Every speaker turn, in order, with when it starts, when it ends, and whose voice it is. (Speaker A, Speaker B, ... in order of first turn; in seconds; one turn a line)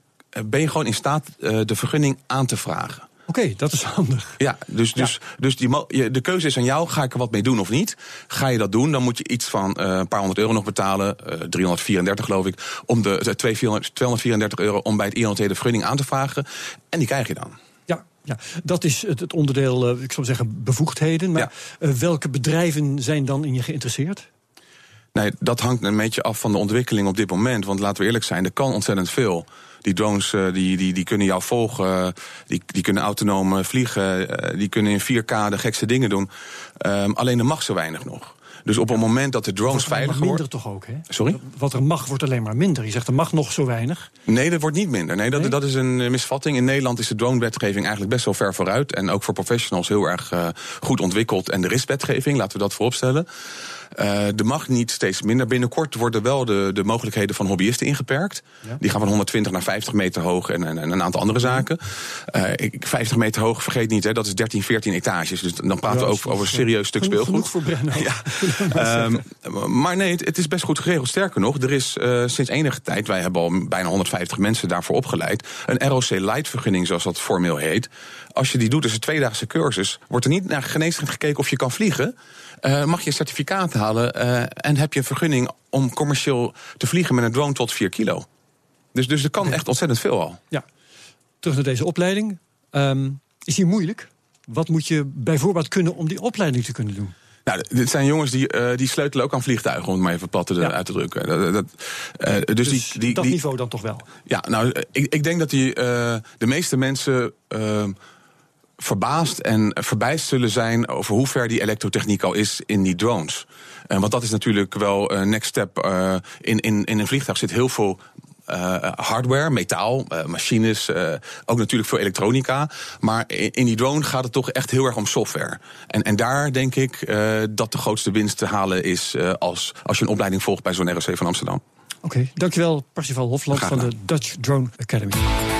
Speaker A: 0.3-3.1
Speaker B: 3.3-4.4
Speaker A: 4.4-17.6
Speaker B: 17.9-24.2
Speaker A: 25.1-40.4
Speaker B: 39.7-44.1
Speaker A: 41.1-41.4
Speaker A: 44.3-53.3
Speaker B: 45.3-45.6
Speaker A: 53.9-88.2
Speaker B: 65.8-69.2
Speaker A: 88.9-90.4
Speaker B: 91.4-97.1
Speaker A: 97.5-103.4
Speaker B: 102.6-104.1
Speaker A: 104.3-108.0
Speaker A: 108.8-131.6
Speaker B: 132.0-135.2
Speaker A: 133.5-133.9